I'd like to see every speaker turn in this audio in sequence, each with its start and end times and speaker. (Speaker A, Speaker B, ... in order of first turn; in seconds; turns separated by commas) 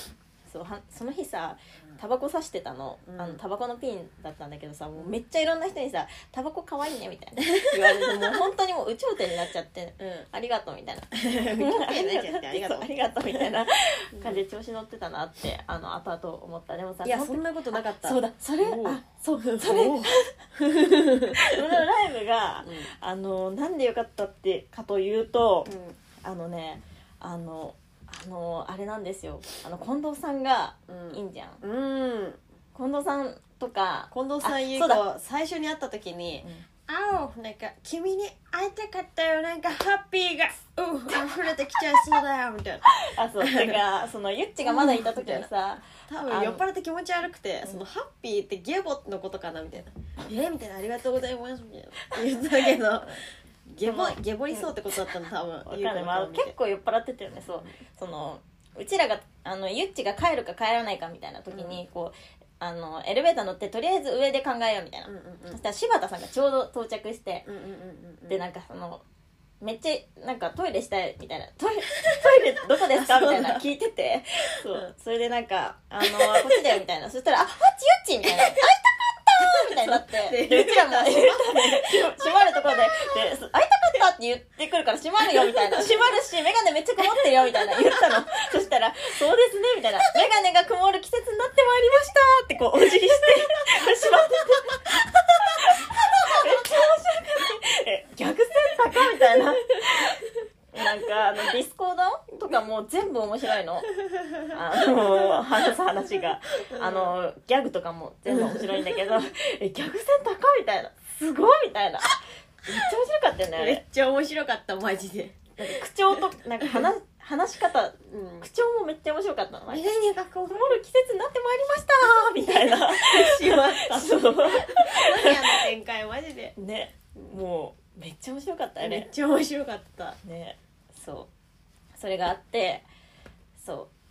Speaker A: 0.5-20.4, Speaker B: 3.1-3.4, Speaker B: 7.6-8.4, Speaker B: 10.0-10.3, Speaker B: 11.2-13.5, Speaker B: 14.1-14.4, Speaker B: 17.0-21.7, Speaker A: 21.2-31.6, Speaker B: 22.6-22.9, Speaker B: 25.7-26.0, Speaker B: 30.9-32.4, Speaker A: 32.8-35.0, Speaker B: 34.1-43.8, Speaker A: 43.0-46.6, Speaker B: 44.6-45.5, Speaker B: 46.1-56.5, Speaker A: 53.8-55.1, Speaker A: 55.6-67.5, Speaker B: 61.5-61.8, Speaker B: 65.1-65.6, Speaker B: 67.5-68.4, Speaker A: 68.3-69.0, Speaker A: 69.6-103.9, Speaker B: 72.0-73.7, Speaker B: 76.0-76.8, Speaker B: 78.2-78.7, Speaker B: 79.4-83.1, Speaker B: 85.3-86.2, Speaker B: 87.0-88.3, Speaker B: 93.2-96.7, Speaker B: 99.0-99.4, Speaker A: 104.4-113.8, Speaker B: 104.8-105.7, Speaker B: 106.6-107.1, Speaker B: 108.3-109.2, Speaker B: 113.5-116.9, Speaker A: 115.6-119.9, Speaker B: 118.0-118.5, Speaker B: 119.7-120.8, Speaker A: 120.5-125.6, Speaker B: 122.4-126.5, Speaker A: 126.6-129.1, Speaker B: 128.8-130.2, Speaker A: 130.2-131.3, Speaker A: 131.9-132.8, Speaker A: 133.6-133.9